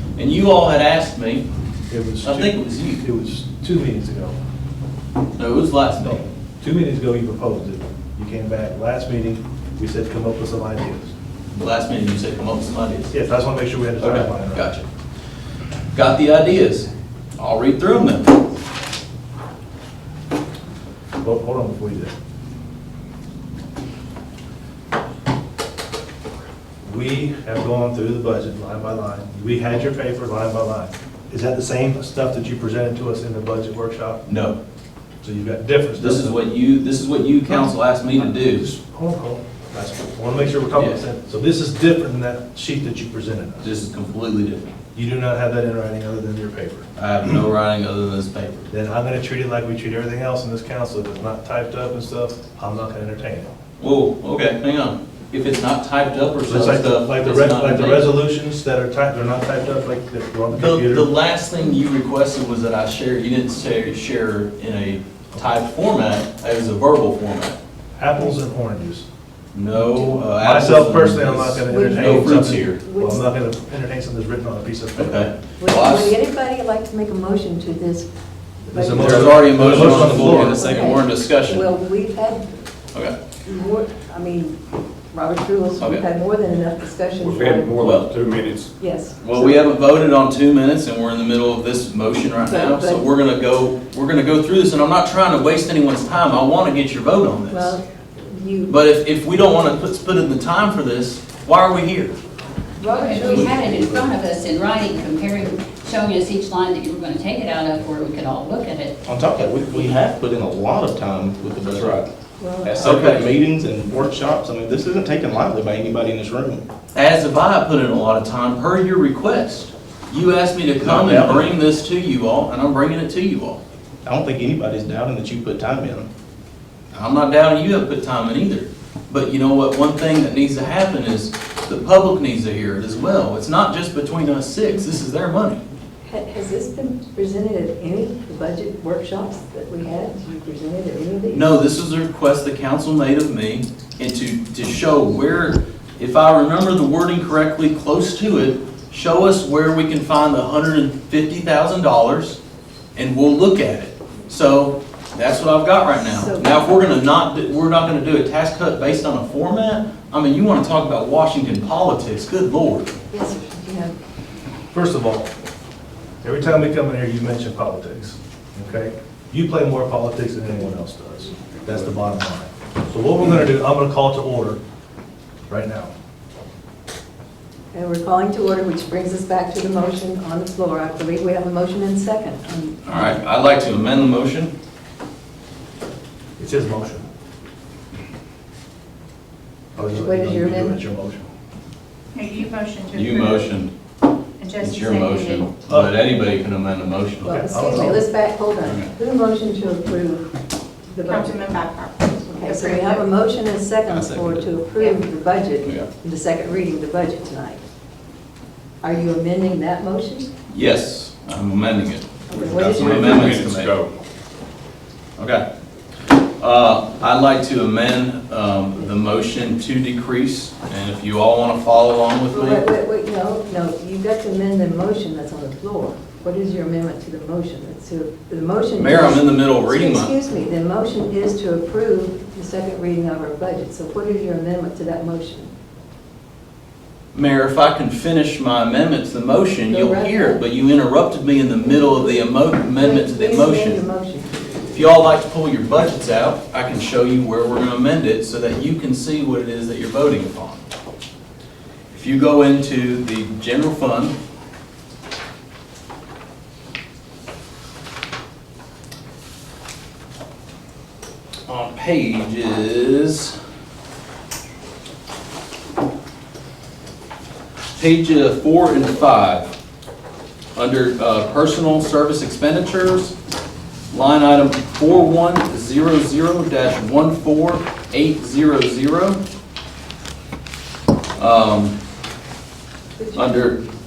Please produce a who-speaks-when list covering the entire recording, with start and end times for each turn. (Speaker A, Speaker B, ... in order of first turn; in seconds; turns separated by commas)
Speaker A: 0.1-1.4, Speaker B: 1.9-4.4, Speaker A: 2.2-3.0, Speaker A: 5.4-6.2, Speaker B: 6.0-11.1, Speaker A: 11.5-13.1, Speaker B: 13.1-14.7, Speaker A: 14.0-14.9, Speaker A: 15.9-16.9, Speaker A: 17.4-18.4, Speaker B: 21.2-22.1, Speaker B: 26.8-34.2, Speaker A: 34.2-34.6, Speaker B: 35.2-36.4, Speaker A: 36.0-38.7, Speaker B: 37.5-43.7, Speaker A: 40.7-41.0, Speaker A: 43.6-44.7, Speaker B: 44.9-47.4, Speaker A: 47.0-48.7, Speaker B: 48.7-53.5, Speaker A: 53.8-58.1, Speaker B: 56.5-61.1, Speaker A: 60.5-67.6, Speaker B: 68.0-69.0, Speaker A: 69.5-72.8, Speaker B: 69.8-75.3, Speaker C: 71.7-73.3, Speaker A: 75.0-76.2, Speaker C: 75.6-78.1, Speaker C: 78.6-82.5, Speaker B: 78.7-80.6, Speaker A: 78.9-81.7, Speaker D: 79.5-81.0, Speaker C: 83.4-84.6, Speaker C: 85.1-87.8, Speaker A: 85.8-86.0, Speaker E: 87.2-88.7, Speaker A: 87.8-88.1, Speaker C: 88.8-89.6, Speaker A: 89.2-97.8, Speaker C: 92.5-93.0, Speaker C: 97.5-98.7, Speaker A: 98.7-102.2, Speaker C: 102.8-103.6, Speaker F: 102.9-109.0, Speaker D: 109.0-112.1, Speaker A: 111.7-112.0, Speaker C: 112.4-113.2, Speaker D: 112.7-116.6, Speaker A: 112.7-113.3, Speaker A: 116.9-123.6, Speaker D: 120.8-121.5, Speaker D: 124.0-126.1, Speaker A: 126.9-135.6, Speaker C: 136.0-141.6, Speaker A: 141.3-152.4, Speaker A: 152.9-162.9, Speaker C: 156.1-156.6, Speaker C: 163.1-163.9, Speaker B: 164.7-165.3, Speaker B: 166.2-174.6, Speaker B: 175.5-175.9, Speaker C: 177.7-183.2, Speaker A: 182.8-184.5, Speaker B: 186.4-187.1, Speaker B: 189.7-191.3, Speaker C: 189.8-190.8, Speaker G: 192.1-193.5, Speaker A: 192.9-193.7, Speaker G: 194.4-195.5, Speaker A: 194.6-197.8, Speaker B: 195.7-195.9, Speaker B: 197.2-198.0, Speaker C: 197.2-200.3, Speaker A: 198.6-198.9, Speaker C: 200.8-201.5, Speaker G: 201.0-203.1, Speaker C: 202.3-207.6, Speaker A: 203.9-204.6, Speaker A: 205.6-205.9, Speaker C: 208.8-210.3, Speaker A: 210.5-213.7, Speaker C: 212.3-213.2, Speaker E: 212.5-213.9, Speaker A: 215.2-215.4, Speaker A: 216.4-222.7, Speaker C: 222.3-235.5, Speaker A: 228.8-230.1, Speaker A: 237.1-243.8, Speaker C: 239.7-240.4, Speaker C: 241.6-242.2, Speaker C: 242.7-244.3, Speaker A: 244.7-250.6, Speaker A: 251.9-254.2, Speaker A: 261.5-263.3, Speaker A: 267.8-269.5, Speaker A: 270.6-273.1, Speaker A: 273.9-279.2, Speaker A: 281.2-281.7, Speaker C: 283.0-283.5, Speaker A: 283.1-283.6